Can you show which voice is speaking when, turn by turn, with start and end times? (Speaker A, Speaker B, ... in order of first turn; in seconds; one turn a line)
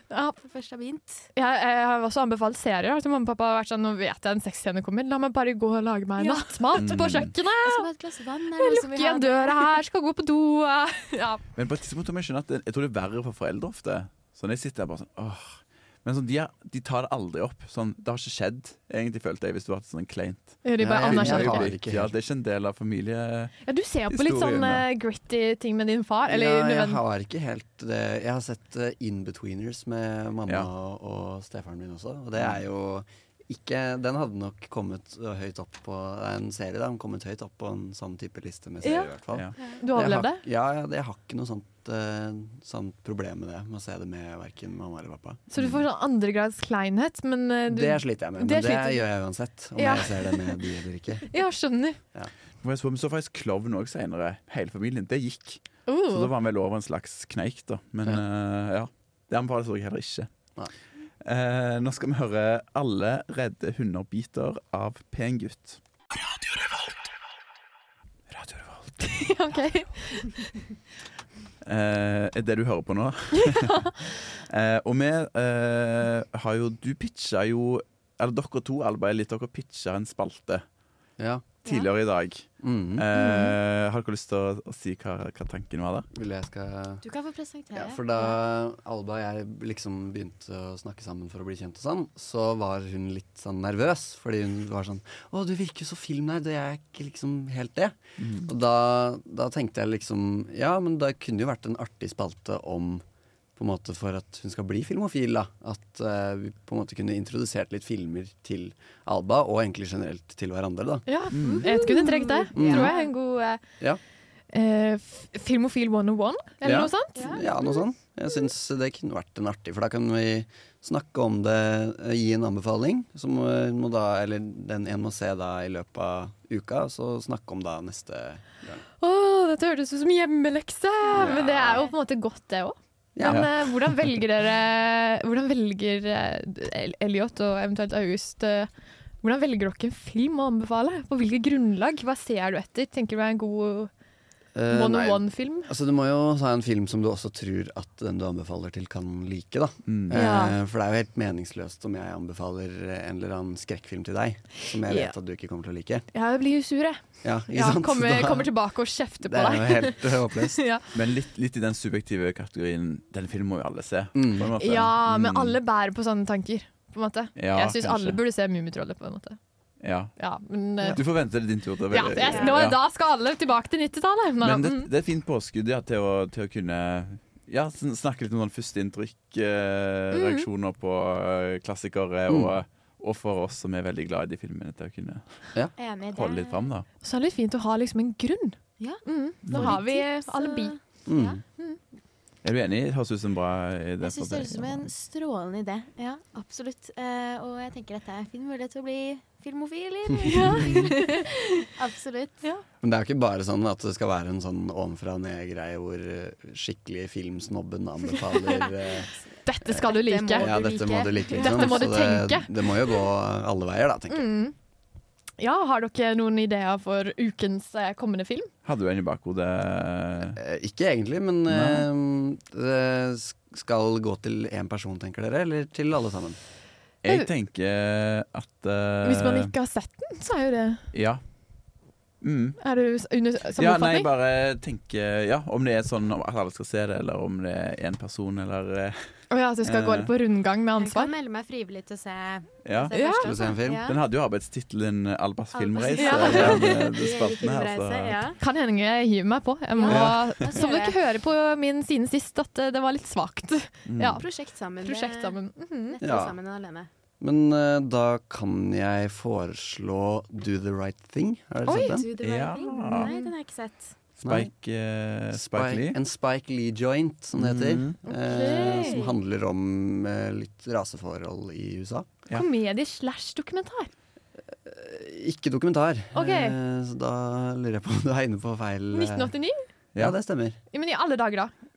Speaker A: 0.3-1.3
Speaker B: 1.4-7.9
Speaker A: 6.2-6.8
Speaker C: 6.8-7.3
Speaker A: 7.6-9.8
Speaker B: 8.6-11.4
Speaker C: 11.6-23.6
Speaker B: 20.6-21.7
Speaker D: 20.8-22.1
Speaker B: 23.6-27.0
Speaker C: 24.1-24.9
Speaker D: 26.3-45.5
Speaker B: 38.8-40.4
Speaker B: 45.5-49.0
Speaker D: 47.7-51.3
Speaker B: 49.8-50.5
Speaker B: 51.3-52.0
Speaker C: 52.6-60.3
Speaker B: 55.9-56.3
Speaker C: 61.2-65.8
Speaker C: 68.3-69.1
Speaker B: 69.0-70.6
Speaker C: 71.6-80.6
Speaker B: 73.3-73.9
Speaker D: 81.2-81.5
Speaker C: 81.7-86.1
Speaker D: 82.6-83.0
Speaker B: 83.2-83.6
Speaker D: 86.1-87.0
Speaker A: 87.0-88.4
Speaker D: 87.7-103.0
Speaker C: 98.2-98.5
Speaker D: 103.6-111.1
Speaker B: 111.1-113.6
Speaker C: 111.3-111.7
Speaker A: 111.4-113.1
Speaker D: 112.5-113.0
Speaker B: 114.5-117.3
Speaker D: 116.6-128.8
Speaker A: 117.2-117.6
Speaker B: 129.0-138.7
Speaker D: 131.2-131.8
Speaker D: 133.2-133.5
Speaker C: 133.2-133.5
Speaker B: 139.2-143.9
Speaker D: 144.5-156.1
Speaker B: 144.7-145.7
Speaker C: 149.9-150.2
Speaker B: 150.1-150.6
Speaker B: 154.9-155.1
Speaker B: 156.1-160.9
Speaker D: 157.2-158.5
Speaker D: 159.2-160.6
Speaker C: 160.9-165.6
Speaker D: 164.2-164.5
Speaker B: 164.6-169.4
Speaker C: 167.4-168.2
Speaker C: 169.8-170.1
Speaker B: 170.2-171.0
Speaker C: 170.9-172.8
Speaker B: 171.9-174.9
Speaker A: 172.2-172.6
Speaker C: 174.4-185.5
Speaker B: 180.1-180.5
Speaker D: 182.3-182.6
Speaker A: 185.8-186.7
Speaker C: 186.1-186.9
Speaker B: 187.0-190.8
Speaker A: 188.8-191.4
Speaker C: 189.5-189.8
Speaker D: 191.1-191.4
Speaker C: 192.4-194.9
Speaker A: 194.0-202.4
Speaker B: 200.3-201.3
Speaker D: 202.8-209.1
Speaker B: 209.4-210.5
Speaker A: 209.7-211.9
Speaker D: 210.3-214.3
Speaker B: 211.4-212.5
Speaker B: 214.1-214.6
Speaker B: 215.4-218.5
Speaker C: 218.7-220.4
Speaker D: 220.3-226.4
Speaker C: 221.5-221.9
Speaker C: 227.0-229.5
Speaker B: 229.0-230.9
Speaker C: 230.9-231.2
Speaker C: 232.2-232.6
Speaker B: 232.6-234.1
Speaker C: 233.6-239.1
Speaker B: 239.3-241.1
Speaker C: 239.6-240.1
Speaker A: 240.8-244.0
Speaker C: 242.7-242.9
Speaker B: 242.9-243.3
Speaker D: 243.2-243.9
Speaker C: 243.8-248.2
Speaker A: 245.5-248.4
Speaker B: 246.0-246.7
Speaker D: 246.3-246.8
Speaker B: 248.4-254.3
Speaker A: 249.7-251.0
Speaker C: 249.9-250.5
Speaker C: 253.9-254.2
Speaker A: 254.2-255.4
Speaker B: 254.8-256.0
Speaker A: 255.9-256.9
Speaker D: 256.0-256.4
Speaker D: 257.2-262.1
Speaker B: 261.7-262.0
Speaker A: 261.7-263.9
Speaker C: 262.2-263.1
Speaker B: 262.9-263.3
Speaker D: 264.2-264.5
Speaker C: 264.2-266.0
Speaker D: 265.3-272.1
Speaker C: 267.4-268.0
Speaker B: 268.1-269.0
Speaker A: 268.3-269.2
Speaker B: 272.3-273.9
Speaker D: 274.6-279.3
Speaker B: 276.1-276.6
Speaker B: 278.9-279.6
Speaker D: 280.0-280.6
Speaker B: 280.7-281.5